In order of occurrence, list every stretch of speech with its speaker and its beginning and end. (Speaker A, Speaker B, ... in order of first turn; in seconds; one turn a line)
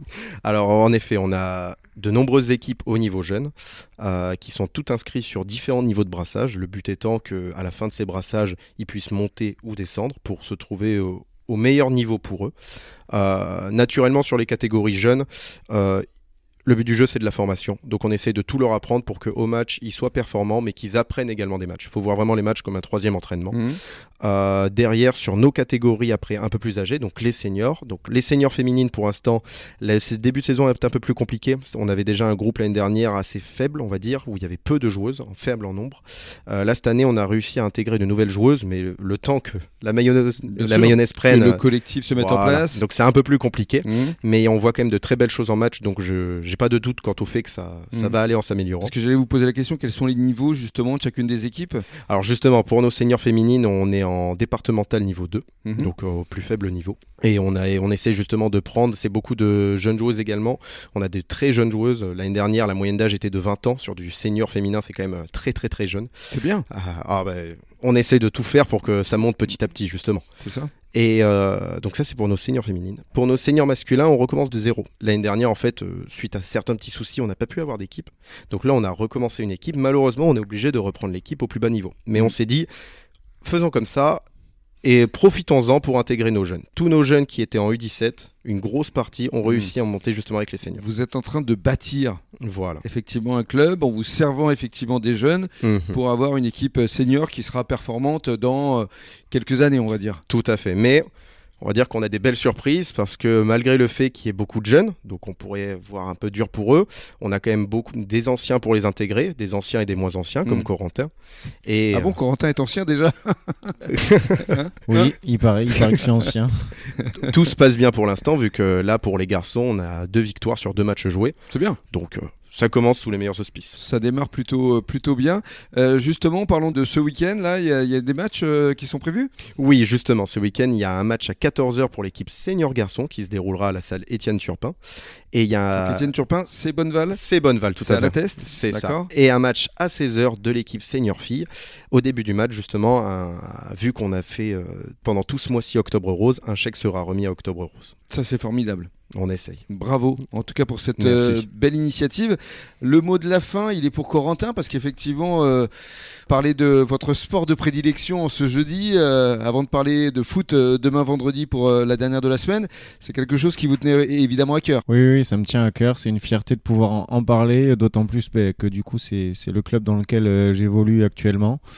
Speaker A: 0.4-12.5
Speaker A: 13.1-16.0
Speaker A: 16.7-23.6
Speaker B: 23.5-23.8
Speaker A: 24.2-48.9
Speaker B: 40.5-42.8
Speaker B: 43.8-44.1
Speaker B: 48.8-51.9
Speaker A: 52.1-66.1
Speaker B: 55.6-55.9
Speaker B: 66.3-66.7
Speaker A: 66.7-70.2
Speaker B: 70.4-70.7
Speaker A: 70.9-82.7
Speaker A: 83.4-84.2
Speaker A: 84.8-90.8
Speaker B: 89.4-89.7
Speaker B: 90.7-92.2
Speaker A: 92.4-92.8
Speaker B: 92.8-100.2
Speaker A: 95.6-96.0
Speaker A: 100.3-101.1
Speaker A: 101.6-111.1
Speaker A: 111.7-112.2
Speaker B: 111.9-115.1
Speaker A: 113.9-114.4
Speaker C: 114.9-116.7
Speaker B: 115.8-116.1
Speaker B: 117.0-117.3
Speaker A: 117.2-121.4
Speaker B: 121.5-121.8
Speaker A: 121.9-123.8
Speaker B: 123.8-129.3
Speaker A: 129.6-134.8
Speaker A: 135.3-136.1
Speaker B: 135.8-137.2
Speaker A: 137.1-147.9
Speaker B: 137.8-139.1
Speaker B: 148.1-148.9
Speaker A: 149.1-149.7
Speaker B: 149.7-155.7
Speaker A: 151.0-151.4
Speaker B: 156.3-164.8
Speaker C: 164.9-171.6